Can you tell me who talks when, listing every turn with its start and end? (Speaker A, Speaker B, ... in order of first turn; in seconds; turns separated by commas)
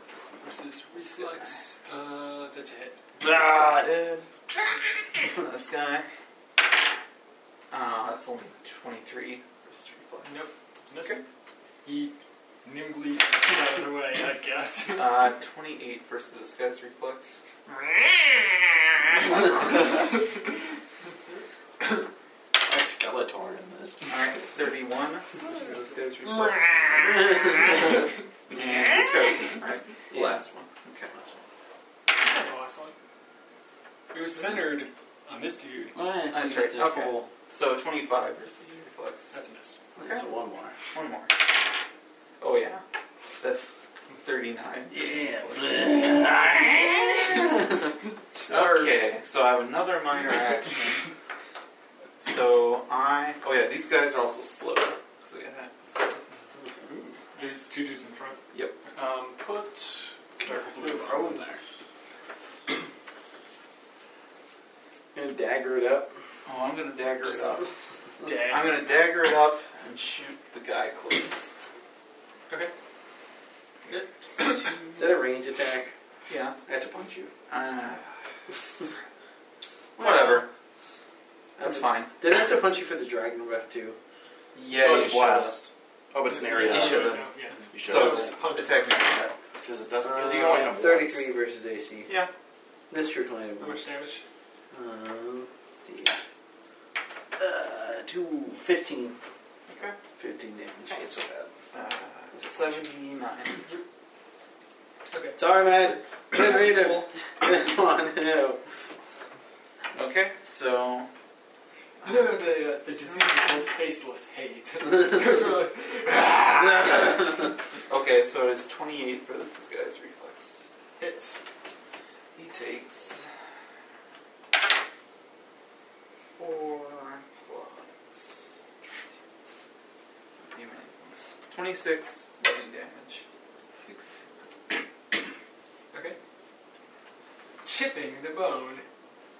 Speaker A: 0.4-3.0, Speaker B: 0.9-1.6, Speaker C: 3.2-4.2, Speaker B: 3.2-4.2, Speaker B: 5.2-6.0, Speaker B: 7.7-11.2, Speaker A: 10.2-11.2, Speaker A: 11.8-15.3, Speaker B: 14.9-17.4, Speaker B: 19.1-20.1, Speaker C: 22.6-24.1, Speaker B: 24.1-31.1, Speaker C: 26.9-28.0, Speaker C: 30.1-30.4, Speaker C: 31.1-31.4, Speaker A: 32.1-32.9, Speaker A: 34.1-36.0, Speaker C: 35.9-37.3, Speaker B: 36.3-39.4, Speaker A: 39.3-39.8, Speaker B: 40.0-40.3, Speaker C: 40.0-40.8, Speaker B: 40.9-41.3, Speaker B: 42.4-42.8, Speaker B: 43.4-46.3, Speaker C: 44.9-47.8, Speaker B: 48.4-51.1, Speaker B: 52.2-55.7, Speaker C: 56.5-56.9, Speaker A: 57.3-58.4, Speaker B: 57.4-57.6, Speaker B: 58.5-58.8, Speaker D: 59.0-61.4, Speaker C: 60.5-61.6, Speaker C: 65.1-66.1, Speaker B: 66.5-67.7, Speaker A: 68.2-68.7, Speaker B: 68.3-71.6, Speaker A: 73.9-74.8, Speaker B: 74.4-75.1, Speaker C: 75.0-75.9, Speaker B: 76.3-76.6, Speaker C: 76.7-77.3, Speaker B: 77.5-78.0, Speaker B: 80.0-80.5, Speaker B: 81.6-82.1, Speaker C: 81.6-84.0, Speaker B: 84.5-85.6, Speaker E: 84.8-88.3, Speaker A: 86.3-89.0, Speaker B: 86.5-87.3, Speaker C: 86.7-87.1, Speaker B: 87.8-89.3, Speaker E: 89.6-91.3, Speaker C: 90.4-92.1, Speaker C: 92.9-93.9, Speaker A: 93.6-94.2, Speaker C: 94.7-96.2, Speaker C: 97.4-99.2, Speaker B: 99.7-100.0, Speaker C: 100.2-101.0, Speaker E: 100.9-101.5, Speaker B: 101.7-103.7, Speaker C: 102.3-102.8, Speaker A: 105.1-106.0, Speaker C: 105.3-108.6, Speaker B: 106.3-107.1, Speaker B: 109.9-111.1, Speaker B: 112.0-113.7, Speaker A: 112.0-117.0, Speaker B: 116.2-116.8, Speaker C: 116.3-117.5, Speaker B: 117.9-120.6, Speaker A: 121.0-121.4, Speaker B: 122.3-123.2, Speaker B: 126.4-128.5, Speaker B: 130.4-133.2, Speaker A: 135.9-136.2, Speaker A: 137.6-138.8